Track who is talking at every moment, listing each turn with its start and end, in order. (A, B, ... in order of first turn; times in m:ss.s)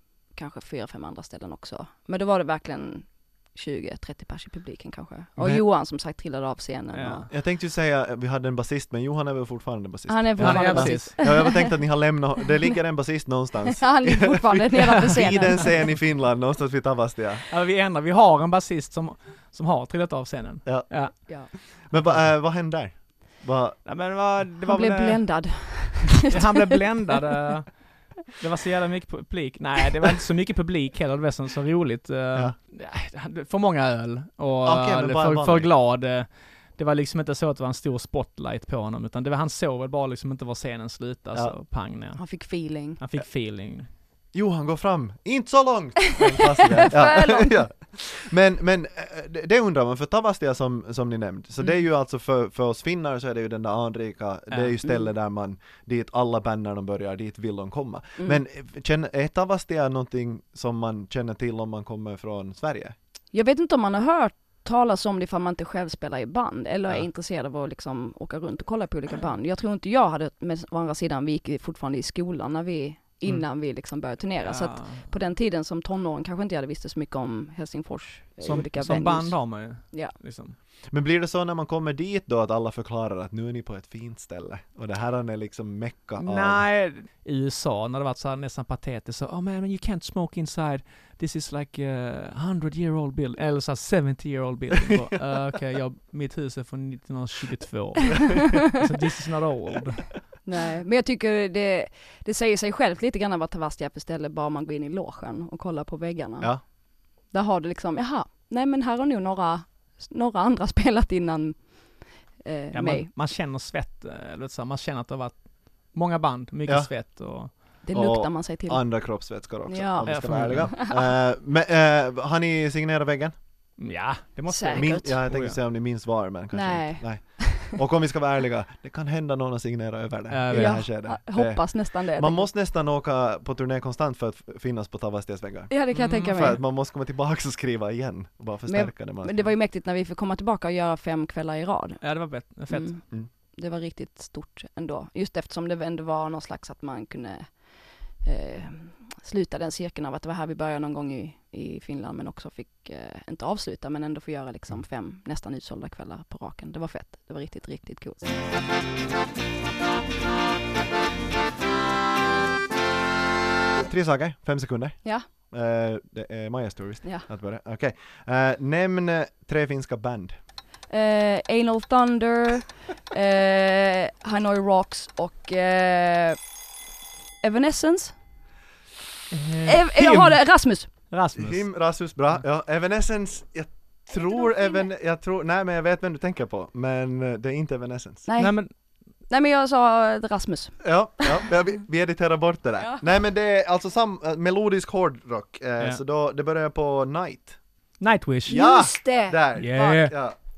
0:00.3-0:07.3 A
0:05.4-0:05.6 B
0:06.9-0:07.2 C
0:07.3-0:17.4 B
0:10.1-0:11.8 A
0:10.4-0:11.3 C
0:13.8-0:15.8 A
0:17.5-0:21.2 C
0:20.6-0:23.8 B
0:23.8-0:43.9 C
0:24.6-0:26.7 A
0:34.6-0:35.7 B
0:42.2-0:43.0 A
0:44.3-1:02.9 B
0:46.6-0:47.6 A
1:03.3-1:20.1 A
1:14.4-1:15.1 C
1:18.4-1:20.6 C
1:20.9-1:26.6 B
1:26.2-1:40.2 C
1:40.4-1:46.7 A
1:47.3-1:51.8 A
1:52.4-1:53.1 A
1:52.7-1:57.6 C
1:57.8-1:59.1 A
1:57.9-2:03.3 B
1:59.6-2:01.0 A
2:00.0-2:00.7 C
2:03.8-2:05.6 C
2:04.5-2:05.2 A
2:04.7-2:19.5 B
2:06.5-2:07.8 A
2:10.3-2:10.8 C
2:10.5-2:12.5 A
2:15.7-2:16.6 A
2:15.9-2:16.5 C
2:18.7-2:22.1 A
2:22.0-2:22.9 C
2:22.7-2:38.3 A
2:43.7-2:50.4 B
2:50.9-2:56.4 A
2:57.4-2:58.1 A
2:59.3-3:01.7 C
2:59.6-3:00.9 A
3:01.4-3:08.2 B
3:04.1-3:04.8 A
3:08.2-3:08.6 A
3:08.4-3:08.7 C
3:09.3-3:11.4 A
3:10.8-3:17.6 B
3:12.8-3:13.0 A
3:18.0-3:18.8 C
3:18.5-3:20.0 A
3:18.5-3:20.4 B
3:19.6-3:20.3 C